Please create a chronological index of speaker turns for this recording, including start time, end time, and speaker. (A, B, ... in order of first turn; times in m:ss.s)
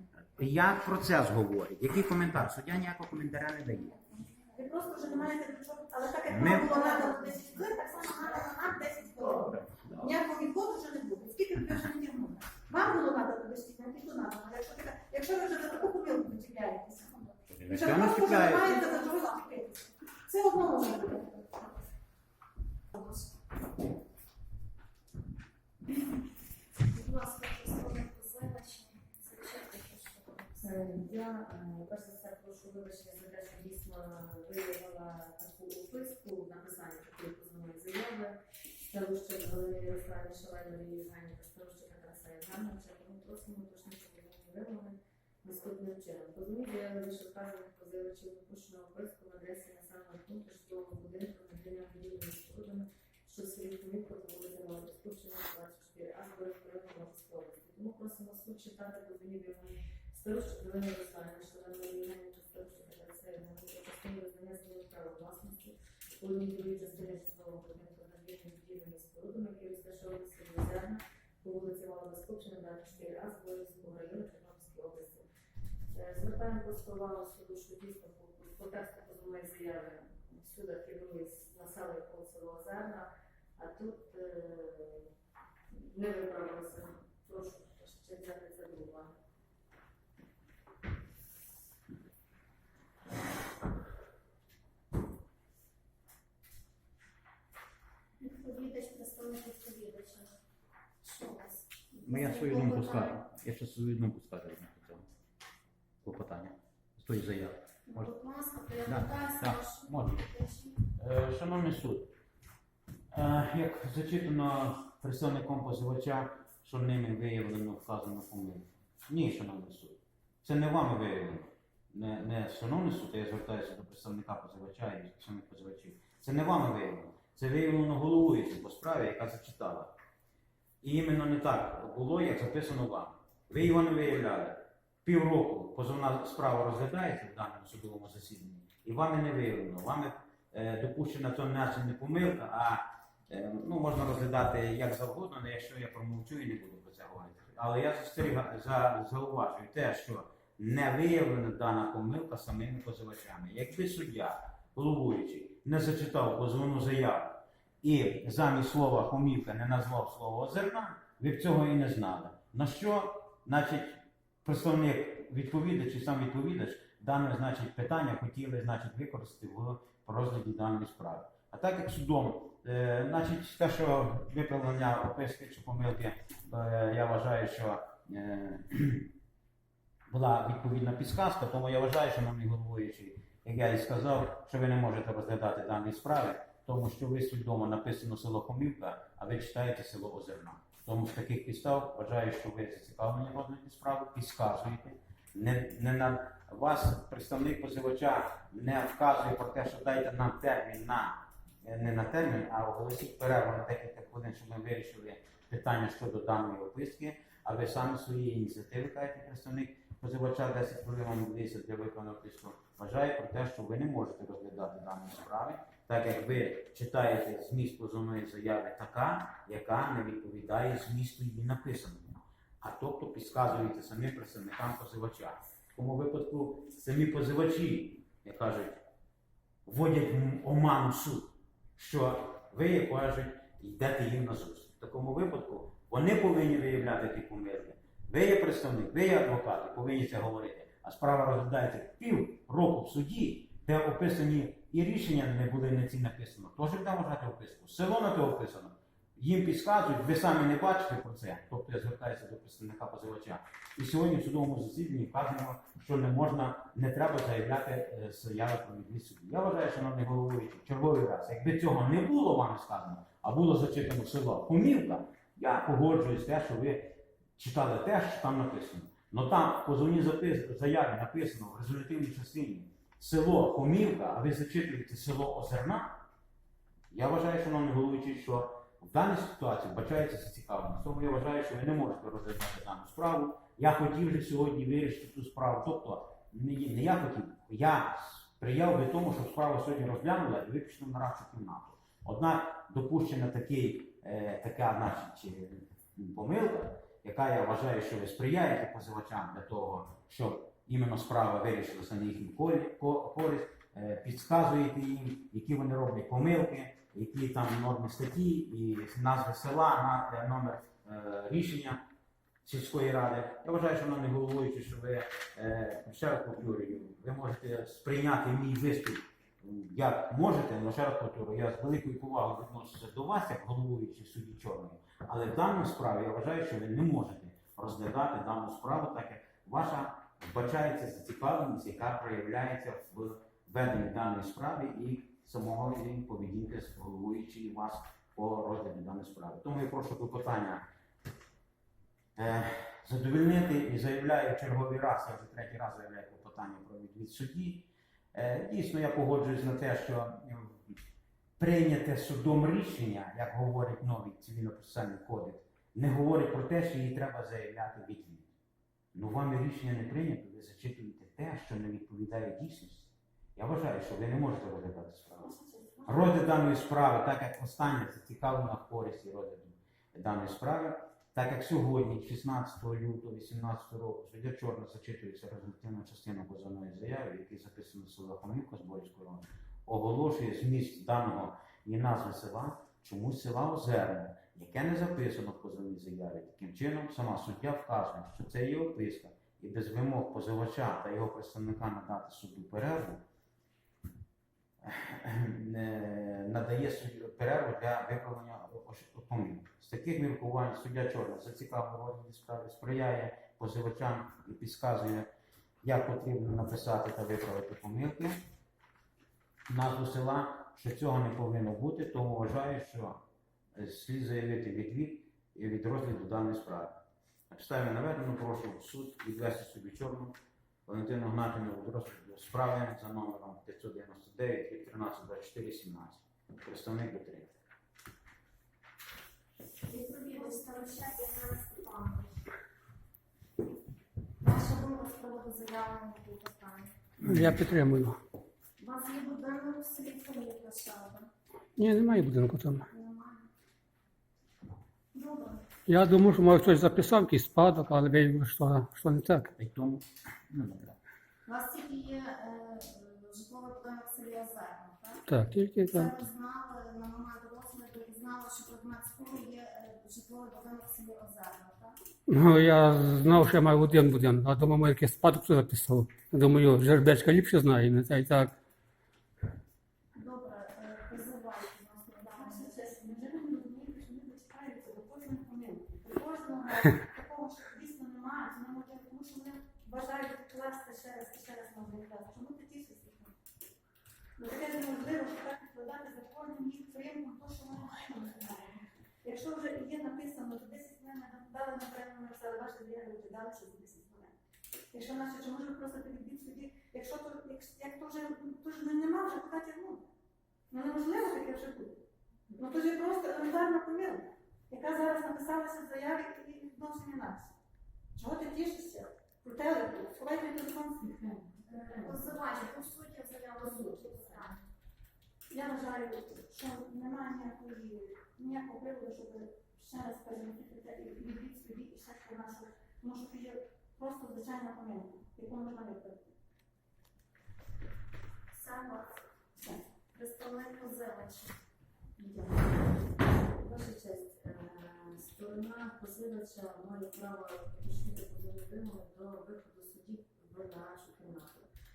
0:00.4-0:03.9 A
0:04.0-0:04.4 B
0:04.5-0:21.7 C
0:06.3-0:06.9 A
0:09.2-0:10.1 A
0:17.5-0:18.7 A
0:22.9-0:23.2 B
0:26.9-0:30.8 B
0:30.6-1:15.3 D
1:15.9-1:25.1 D
1:25.7-1:29.1 D
1:38.2-1:40.4 B
1:41.0-1:43.2 B
1:42.0-1:45.1 A
1:46.0-1:48.1 A
1:47.9-1:50.8 B
1:48.8-1:50.3 A
1:50.9-1:52.1 A
1:53.1-2:09.9 A
2:10.8-2:59.1 A
3:00.1-3:48.8 A
3:49.6-4:36.0 A
4:36.9-5:11.8 A
5:12.4-5:40.6 A
5:42.2-5:50.8 A
5:51.4-5:58.3 A
5:58.9-6:33.0 A
6:05.2-6:06.1 C
6:34.6-6:45.1 A
6:45.6-6:48.2 A
6:49.5-6:53.0 A
6:53.5-7:00.1 A
7:00.6-7:07.3 A
7:09.6-7:12.1 B
7:14.2-7:16.7 B
7:17.0-7:17.4 A
7:17.0-7:18.0 E
7:18.6-7:21.1 B
7:21.6-7:22.7 E
7:22.7-7:23.3 B
7:24.9-7:25.5 B
7:25.6-7:29.3 E
7:29.4-7:30.8 A
7:31.2-7:41.8 B
7:35.1-7:35.9 E
7:42.1-7:48.3 E
7:49.9-7:52.6 B
7:52.1-8:03.1 C
8:04.2-8:14.1 C
8:14.7-8:19.8 C
8:20.5-8:21.8 C
8:22.3-8:27.3 C
8:27.9-8:32.0 C
8:31.5-8:34.4 B
8:35.3-8:46.1 C
8:48.3-8:49.0 B
8:49.9-8:51.3 B
8:52.0-9:01.5 D